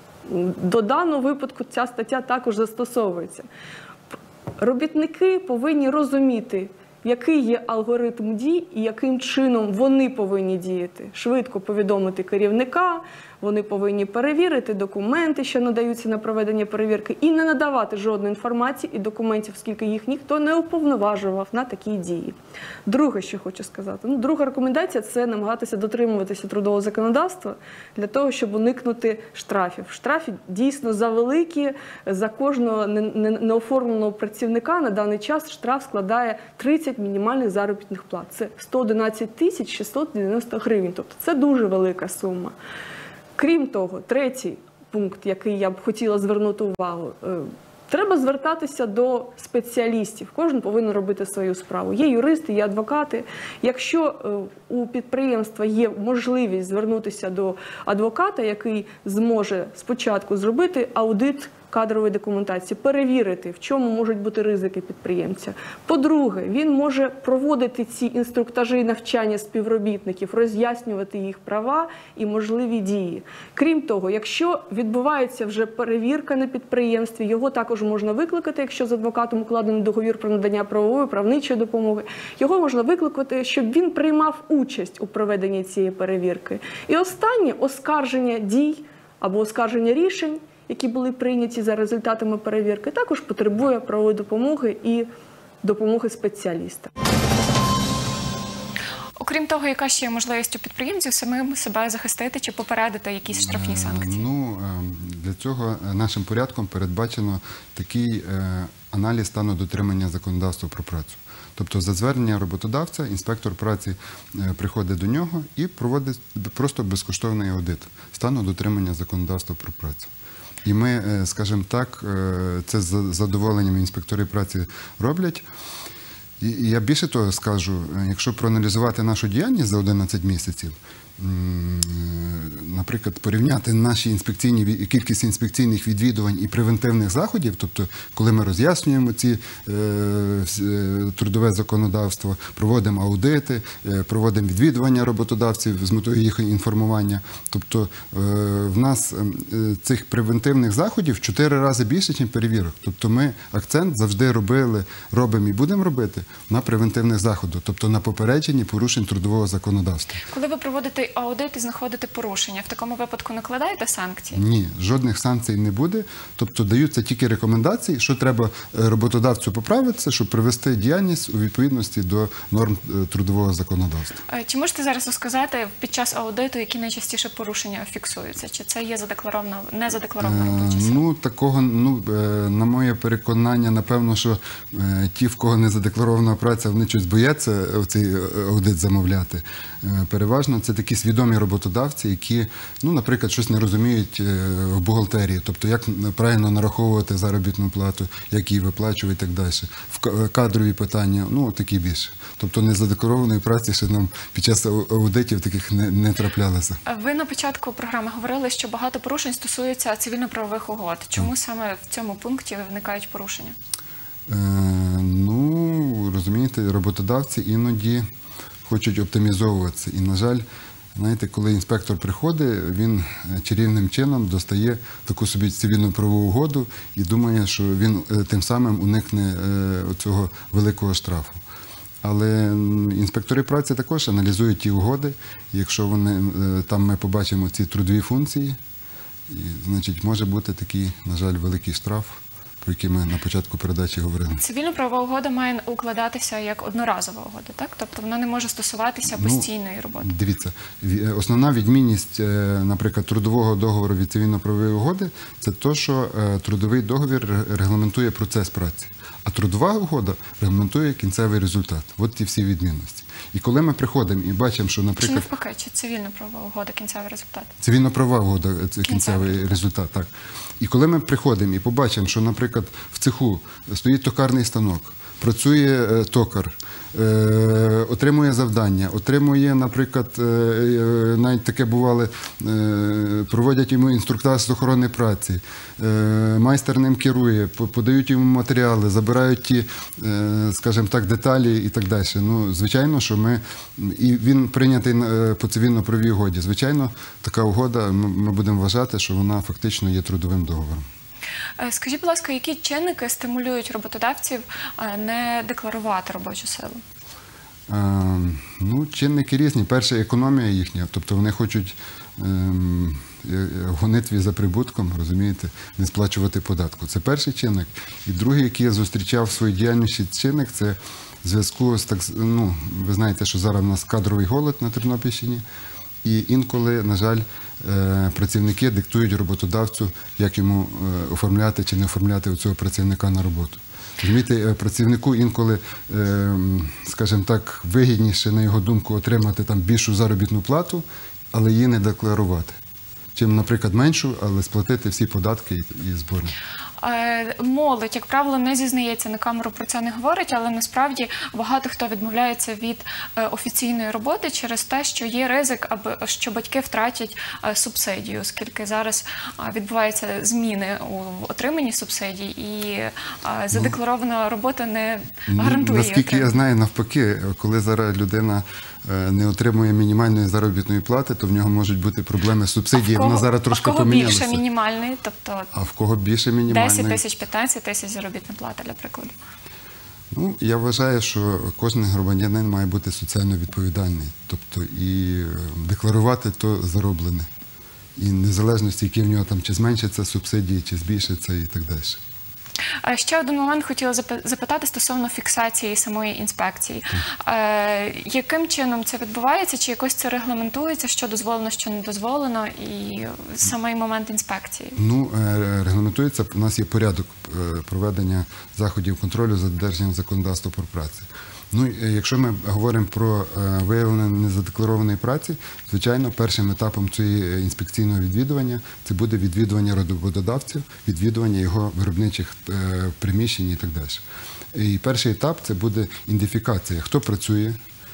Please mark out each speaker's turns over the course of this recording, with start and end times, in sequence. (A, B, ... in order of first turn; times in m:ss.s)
0:00.2-0:03.5 A
0:04.6-0:22.4 A
0:22.9-0:42.6 A
0:43.4-1:35.1 A
1:35.6-1:36.9 A
1:39.2-1:44.2 B
1:43.3-2:00.1 C
2:00.6-2:05.4 C
2:06.4-2:40.2 C
2:40.3-2:44.4 B
2:44.3-2:54.2 C
2:54.3-3:01.0 B
3:00.2-3:26.8 C
3:26.8-3:33.6 B
3:34.3-3:38.1 C
3:38.6-3:40.4 C
3:40.9-3:51.4 C
3:52.0-3:58.6 C
3:59.3-4:04.4 C
4:04.4-4:10.1 B
4:09.1-4:09.5 C
4:10.0-4:25.3 C
4:25.0-4:27.5 B
4:27.6-4:30.1 C
4:28.8-4:29.6 B
4:30.6-5:00.8 C
5:01.6-5:06.8 B
5:07.7-5:25.4 C
5:26.0-5:42.6 C
5:43.1-5:46.4 C
5:46.8-6:06.3 B
6:05.3-6:14.4 C
6:12.7-6:15.5 B
6:15.5-6:17.0 C
6:16.5-6:19.1 B
6:20.1-6:27.3 C
6:28.0-6:32.0 C
6:32.8-6:44.8 B
6:44.8-7:07.6 C